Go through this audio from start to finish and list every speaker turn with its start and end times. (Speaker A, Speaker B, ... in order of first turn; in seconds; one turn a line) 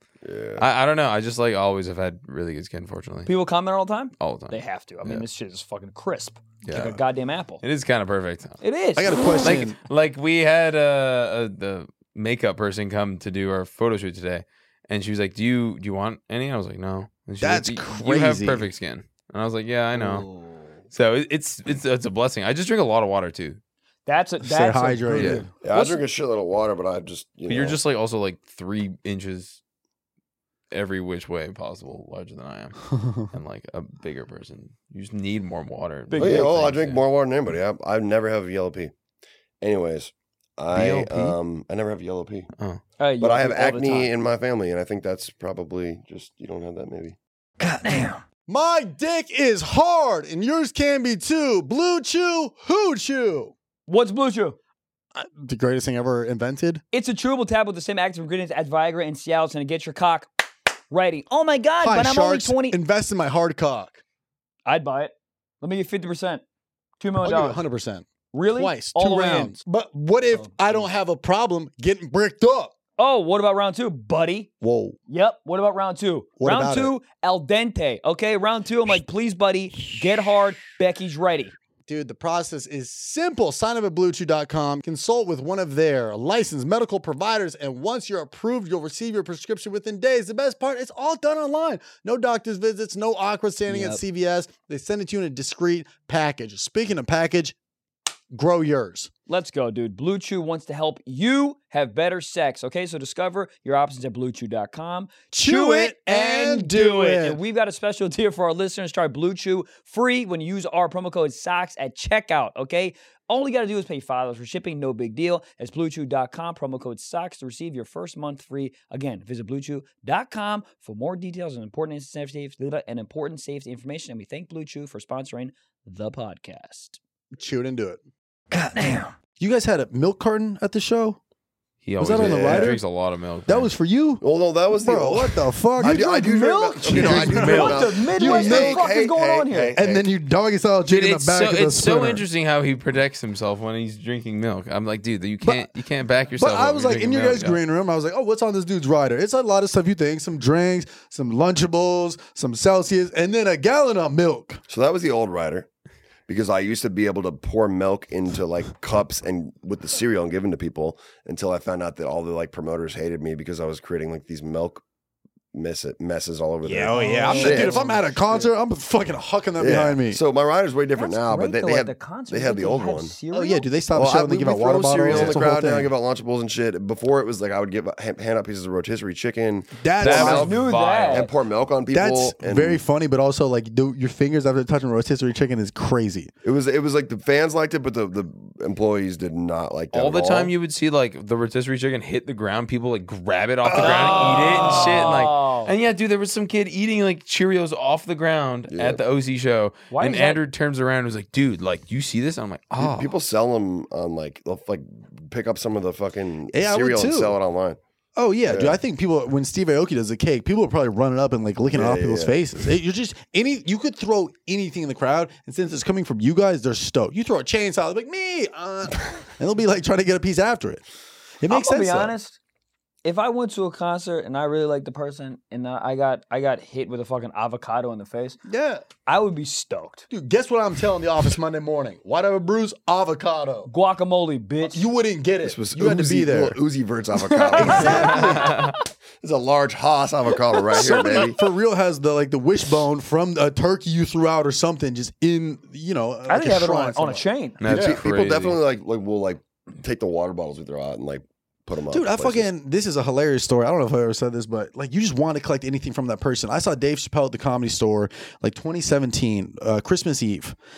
Speaker A: 0.2-0.6
Speaker B: 0.6-3.3
Speaker C: 3.2-7.6
Speaker B: 4.2-5.2
Speaker B: 6.6-7.0
Speaker B: 7.6-8.6
Speaker C: 8.6-9.5
Speaker D: 8.9-9.8
Speaker B: 9.4-20.3
Speaker D: 17.4-18.7
Speaker A: 19.9-20.8
Speaker B: 20.9-23.6
Speaker C: 24.1-26.0
Speaker D: 24.4-25.5
Speaker B: 25.1-25.4
Speaker A: 25.6-27.8
Speaker B: 27.5-29.6
Speaker B: 30.7-37.0
Speaker C: 36.1-36.6
Speaker A: 36.2-38.9
Speaker A: 39.6-42.5
Speaker B: 40.7-41.4
Speaker C: 43.0-44.1
Speaker A: 43.2-47.2
Speaker C: 47.6-48.2
Speaker D: 48.5-53.5
Speaker C: 53.9-54.6
Speaker D: 55.1-56.8
Speaker C: 56.9-60.3
Speaker C: 60.9-62.8
Speaker D: 61.8-64.0
Speaker C: 64.7-66.4
Speaker C: 67.0-67.6
Speaker D: 67.2-72.7
Speaker C: 68.3-69.6
Speaker C: 73.0-74.5
Speaker D: 74.6-75.0
Speaker C: 75.1-81.5
Speaker D: 76.4-76.9
Speaker D: 81.9-97.5
Speaker C: 93.7-94.0
Speaker D: 98.3-99.1
Speaker C: 99.3-127.0
Speaker D: 105.3-107.4
Speaker D: 127.3-128.0
Speaker C: 128.5-129.1
Speaker D: 129.4-131.2
Speaker B: 131.8-133.7
Speaker D: 132.0-132.8
Speaker A: 132.1-132.8
Speaker D: 133.5-138.8
Speaker A: 134.2-140.1
Speaker C: 135.8-139.7
Speaker B: 136.9-137.8
Speaker D: 139.8-142.2
Speaker B: 140.9-147.6
Speaker D: 146.3-154.6
Speaker A: 154.7-155.7
Speaker A: 156.3-164.8
Speaker A: 165.5-168.4
Speaker D: 166.6-170.2
Speaker C: 166.9-168.0
Speaker A: 169.6-173.1
Speaker C: 170.9-173.7
Speaker D: 173.3-175.9
Speaker A: 173.9-180.5
Speaker D: 179.8-180.5
Speaker B: 180.0-181.3
Speaker C: 180.0-181.3
Speaker A: 181.1-182.8
Speaker D: 181.9-186.3
Speaker A: 186.4-190.5
Speaker B: 189.9-203.1
Speaker C: 193.7-195.7
Speaker D: 193.8-194.4
Speaker A: 198.7-199.0
Speaker C: 199.9-200.4
Speaker A: 202.8-207.8
Speaker D: 206.5-207.4
Speaker D: 208.2-220.8
Speaker A: 208.4-208.8
Speaker A: 211.7-212.4
Speaker D: 221.4-222.1
Speaker C: 221.5-222.4
Speaker C: 223.0-228.4
Speaker D: 228.4-228.8
Speaker C: 229.1-230.1
Speaker D: 230.1-233.7
Speaker C: 233.7-234.8
Speaker D: 234.6-236.6
Speaker A: 235.4-241.4
Speaker C: 237.2-238.8
Speaker D: 237.6-238.5
Speaker C: 240.5-241.3
Speaker D: 240.7-248.0
Speaker C: 246.3-247.6
Speaker B: 247.6-248.6
Speaker A: 247.7-252.4
Speaker D: 251.9-260.6